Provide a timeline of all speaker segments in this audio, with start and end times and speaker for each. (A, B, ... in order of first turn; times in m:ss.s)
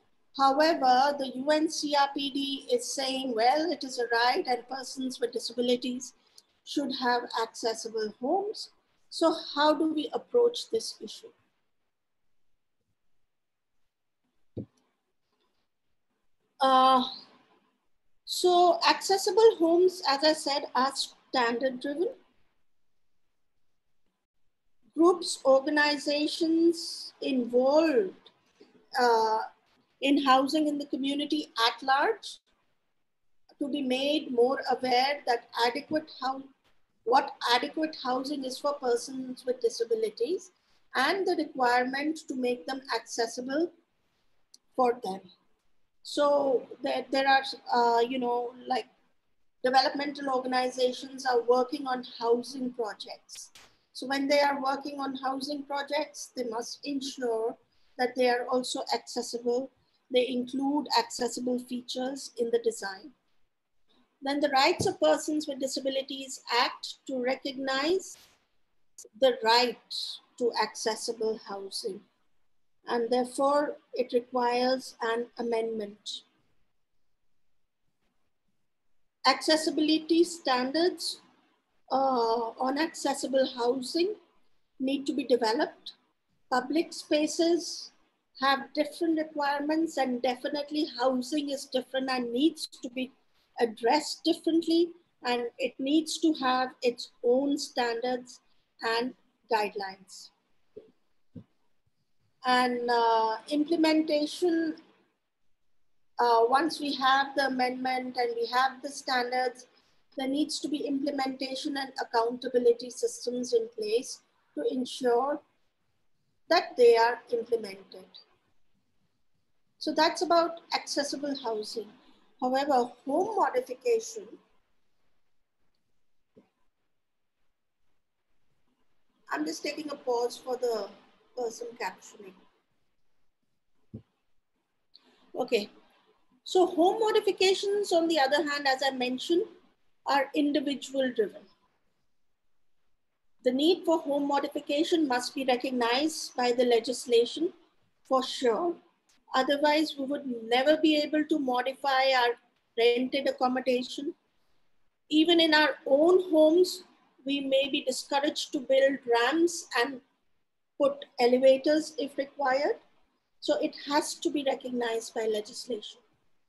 0:00.3-0:11.3 A
0:16.6-0:17.1 A
0:18.2-0:22.1 A
0:24.9-0:28.3 A
0:29.0-0:29.5 A
0:30.0-0:32.4 A
0:33.6-0:36.5 A
0:37.0-0:43.7 A
0:44.8-0:45.2 A
0:46.0-0:48.9 A
0:49.6-1:03.1 A
1:04.2-1:08.2 A
1:09.2-1:12.0 A
1:12.8-1:16.2 A
1:19.2-1:21.2 A
1:21.9-1:24.2 A
1:24.8-1:25.9 A
1:26.5-1:40.3 A
1:42.4-1:44.8 A
1:46.2-1:55.4 A
1:56.5-1:58.2 A
1:59.8-2:04.4 A
2:09.3-2:12.4 A
2:15.3-2:15.7 A
2:16.4-2:19.5 A
2:20.0-2:21.5 A
2:23.4-2:27.5 A
2:28.1-2:28.8 A
2:29.3-2:34.1 A
2:35.1-2:40.0 A
2:40.8-2:42.8 A
2:43.4-2:46.0 A